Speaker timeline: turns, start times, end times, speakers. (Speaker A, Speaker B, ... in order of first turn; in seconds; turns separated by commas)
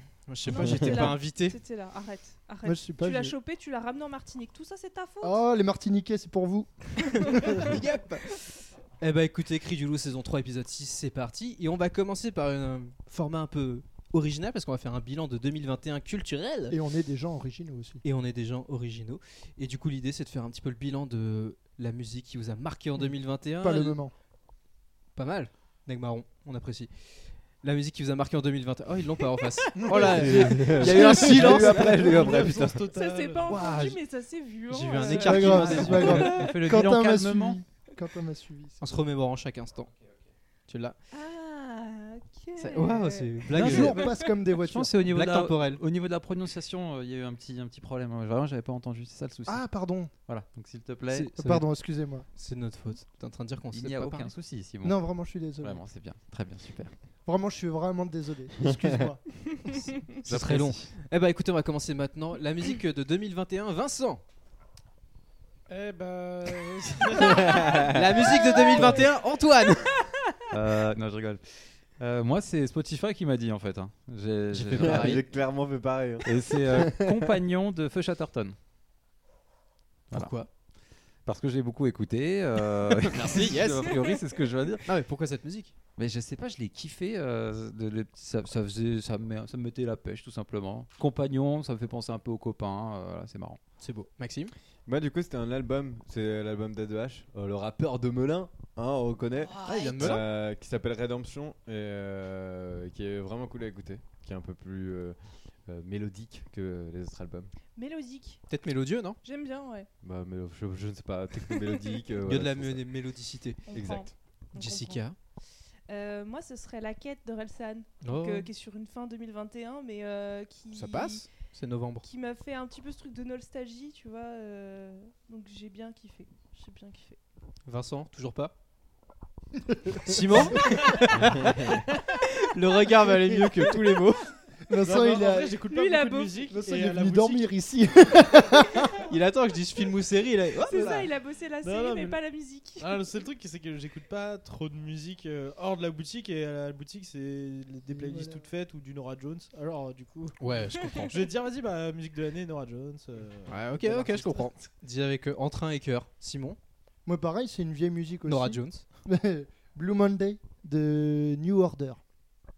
Speaker A: 0.3-1.6, Speaker B: 0.5-5.4, Speaker C: 0.6-1.1, Speaker D: 2.6-3.4, Speaker D: 5.2-7.7, Speaker A: 7.2-16.8, Speaker D: 16.7-18.0, Speaker A: 18.0-24.0, Speaker D: 23.6-24.1, Speaker A: 25.1-32.1, Speaker D: 29.8-32.1, Speaker C: 29.9-32.9, Speaker E: 31.7-33.6, Speaker B: 32.9-36.3, Speaker A: 33.5-34.0, Speaker A: 34.7-36.4, Speaker D: 35.0-38.8, Speaker F: 35.7-37.6, Speaker A: 38.8-39.9, Speaker A: 40.7-41.0, Speaker B: 41.1-43.5, Speaker A: 42.6-44.1, Speaker F: 43.5-44.0, Speaker D: 43.6-44.9, Speaker B: 44.0-44.3, Speaker F: 44.6-49.7, Speaker A: 45.1-45.8, Speaker D: 49.5-50.1, Speaker F: 50.2-51.3, Speaker A: 51.1-51.7, Speaker D: 51.4-52.3, Speaker A: 52.3-54.3, Speaker F: 53.7-55.0, Speaker D: 54.8-55.8, Speaker F: 55.6-56.9, Speaker D: 57.3-59.8, Speaker A: 60.2-64.2, Speaker F: 60.2-60.9, Speaker E: 65.7-67.7, Speaker C: 67.3-68.0, Speaker A: 67.9-69.9, Speaker F: 70.5-75.2, Speaker A: 74.5-75.2, Speaker C: 74.8-77.3, Speaker F: 76.2-78.6, Speaker F: 80.1-80.4, Speaker A: 80.1-80.5, Speaker F: 81.2-84.9, Speaker A: 82.9-84.2, Speaker A: 84.8-85.7, Speaker F: 86.0-93.6, Speaker A: 93.8-94.5, Speaker C: 94.9-107.5, Speaker B: 99.4-100.2, Speaker A: 99.6-100.2, Speaker B: 107.8-108.4, Speaker A: 108.5-109.2, Speaker B: 109.2-109.9, Speaker C: 110.0-112.8, Speaker A: 112.2-113.6, Speaker B: 113.7-115.0, Speaker C: 113.7-114.1, Speaker A: 114.5-115.2, Speaker B: 115.9-121.3, Speaker A: 118.0-118.5, Speaker A: 120.7-122.1, Speaker B: 122.0-127.2, Speaker A: 127.7-128.6, Speaker D: 129.7-130.6, Speaker A: 130.1-134.3, Speaker D: 133.3-133.7, Speaker D: 134.7-135.7, Speaker E: 134.8-137.5, Speaker B: 135.7-136.4, Speaker D: 136.4-138.9, Speaker A: 139.1-141.0, Speaker B: 140.7-143.0, Speaker E: 140.8-141.1, Speaker E: 141.6-142.2, Speaker E: 142.8-150.4, Speaker D: 147.9-148.4, Speaker A: 150.4-151.2, Speaker E: 151.0-154.6, Speaker A: 153.5-156.6, Speaker D: 157.1-162.0, Speaker A: 158.3-158.9